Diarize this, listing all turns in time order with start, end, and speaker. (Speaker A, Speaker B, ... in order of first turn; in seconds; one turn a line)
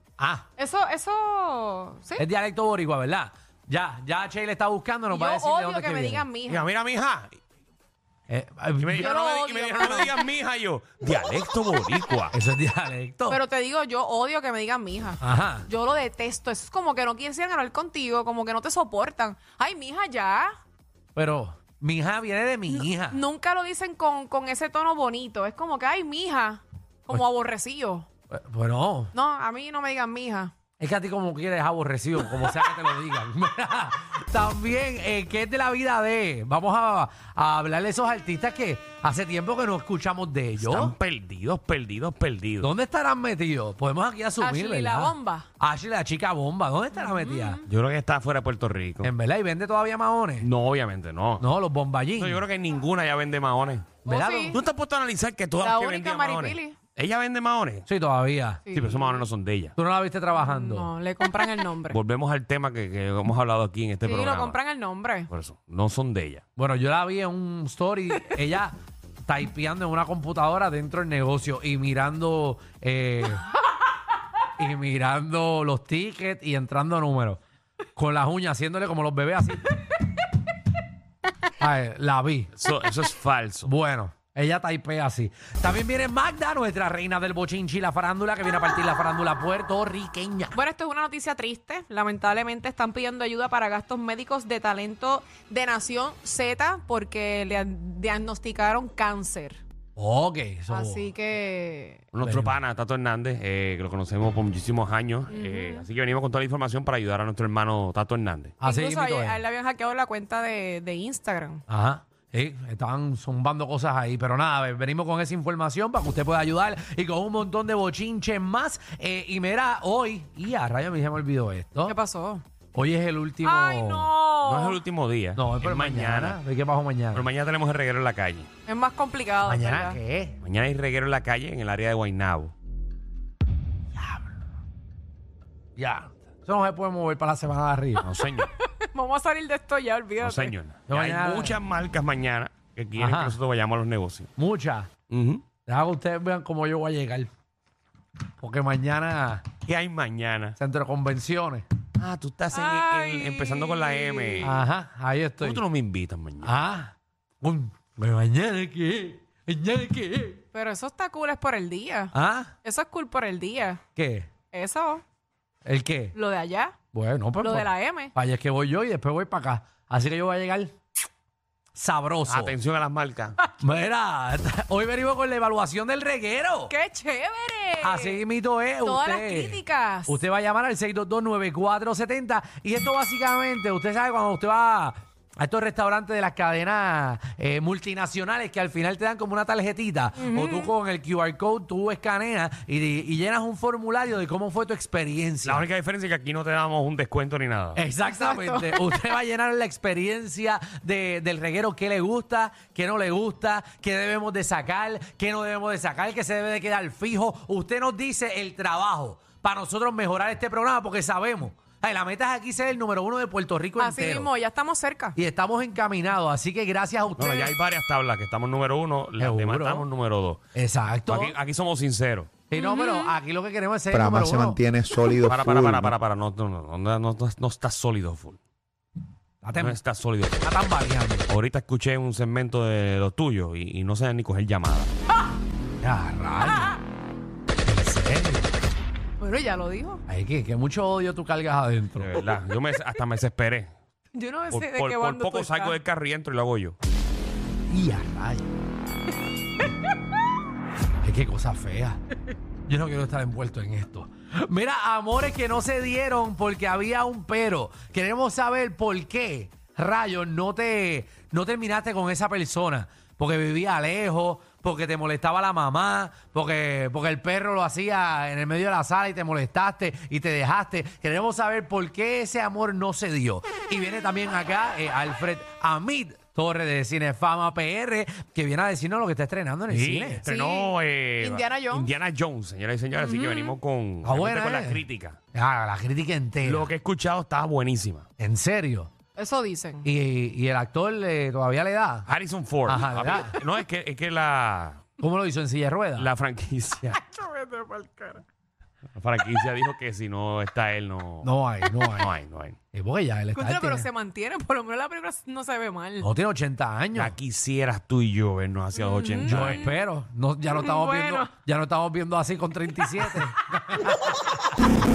Speaker A: 0.2-0.5
Speaker B: 0.6-2.2
Speaker A: 2.2-6.2
Speaker B: 5.1-6.7
Speaker C: 6.5-7.4
Speaker A: 8.3-9.1
Speaker C: 8.8-12.3
Speaker B: 8.9-10.2
Speaker A: 12.3-13.4
Speaker B: 13.3-20.5
Speaker A: 15.2-15.7
Speaker A: 21.1-23.2
Speaker B: 22.7-28.1
Speaker A: 28.3-29.1
Speaker B: 29.1-30.5
Speaker A: 30.8-40.9
Speaker C: 40.6-42.7
Speaker A: 42.6-47.6
Speaker B: 44.4-45.5
Speaker B: 47.0-47.6
Speaker C: 47.6-49.1
Speaker A: 49.0-50.5
Speaker C: 50.4-51.5
Speaker A: 51.4-52.4
Speaker C: 52.2-54.0
Speaker B: 54.0-54.6
Speaker A: 54.0-54.6
Speaker C: 54.5-57.9
Speaker B: 55.6-56.8
Speaker A: 57.9-58.8
Speaker B: 58.7-59.1
Speaker C: 58.7-59.7
Speaker A: 59.8-60.9
Speaker B: 60.3-62.0
Speaker C: 61.9-64.6
Speaker B: 64.0-65.3
Speaker C: 65.3-66.4
Speaker A: 66.6-68.8
Speaker A: 69.3-73.5
Speaker A: 74.6-77.4
Speaker A: 78.0-79.7
Speaker A: 81.6-82.5
Speaker C: 82.5-83.7
Speaker A: 83.6-90.6
Speaker B: 90.5-99.6
Speaker A: 100.0-101.1
Speaker B: 100.7-102.0
Speaker C: 102.1-108.6
Speaker A: 102.2-102.6
Speaker B: 105.3-105.8
Speaker B: 108.6-111.6
Speaker A: 108.6-109.4
Speaker A: 111.7-121.9
Speaker B: 121.8-122.4
Speaker A: 122.7-124.1
Speaker B: 123.4-124.8
Speaker C: 124.4-126.4
Speaker A: 125.3-127.2
Speaker C: 127.1-128.5
Speaker B: 128.7-130.0
Speaker A: 129.4-130.4
Speaker C: 130.4-132.5
Speaker A: 135.8-138.0
Speaker C: 138.0-138.5
Speaker B: 138.5-140.5
Speaker C: 140.2-144.3
Speaker A: 140.9-141.6
Speaker A: 143.0-143.4
Speaker A: 144.4-144.9
Speaker C: 145.1-145.4
Speaker A: 145.7-147.3
Speaker A: 148.4-149.5
Speaker C: 149.6-150.6
Speaker A: 150.6-151.7
Speaker C: 152.0-154.6
Speaker B: 152.5-154.6
Speaker A: 154.4-155.6
Speaker C: 155.4-156.5
Speaker A: 156.4-160.4
Speaker B: 160.5-163.8
Speaker A: 162.1-162.5
Speaker A: 163.9-164.3
Speaker B: 164.5-165.0
Speaker A: 165.6-166.1
Speaker B: 166.1-166.8
Speaker A: 166.9-170.7
Speaker B: 167.4-168.1
Speaker A: 171.7-172.5
Speaker C: 172.3-173.4
Speaker A: 173.6-176.7
Speaker B: 176.7-178.2
Speaker A: 177.8-195.6
Speaker B: 178.8-180.2
Speaker B: 190.2-190.7
Speaker C: 195.4-197.8
Speaker A: 197.7-214.3
Speaker B: 198.1-199.0
Speaker B: 213.8-215.2
Speaker A: 215.2-217.5
Speaker C: 217.2-220.4
Speaker A: 219.2-219.9
Speaker A: 220.5-221.3
Speaker C: 221.1-222.3
Speaker A: 222.5-224.6
Speaker B: 222.5-223.2
Speaker D: 223.9-226.0
Speaker C: 225.2-228.4
Speaker A: 229.4-229.8
Speaker C: 229.5-230.6
Speaker A: 230.4-231.3
Speaker C: 231.3-234.9
Speaker A: 235.8-236.8
Speaker A: 237.6-238.5
Speaker B: 239.2-240.0
Speaker A: 240.1-242.2
Speaker C: 242.0-243.7
Speaker B: 244.1-245.8
Speaker C: 244.5-246.8
Speaker A: 247.7-248.4
Speaker A: 251.0-252.0
Speaker A: 252.7-280.2
Speaker C: 279.7-285.2
Speaker B: 280.2-281.9
Speaker B: 283.0-283.5
Speaker A: 284.0-284.8
Speaker A: 285.3-286.7
Speaker C: 286.4-288.1
Speaker A: 288.2-288.9
Speaker B: 289.1-289.9
Speaker A: 289.8-292.1
Speaker C: 292.1-294.8
Speaker A: 292.6-293.4
Speaker A: 295.0-296.1
Speaker C: 295.9-297.0
Speaker B: 296.9-298.2
Speaker C: 298.9-301.3
Speaker A: 301.2-302.1
Speaker C: 301.9-302.6
Speaker A: 302.7-303.9
Speaker B: 303.3-306.1
Speaker A: 306.0-307.1
Speaker C: 306.9-309.6
Speaker B: 308.8-309.7
Speaker A: 309.2-314.3
Speaker B: 310.5-311.3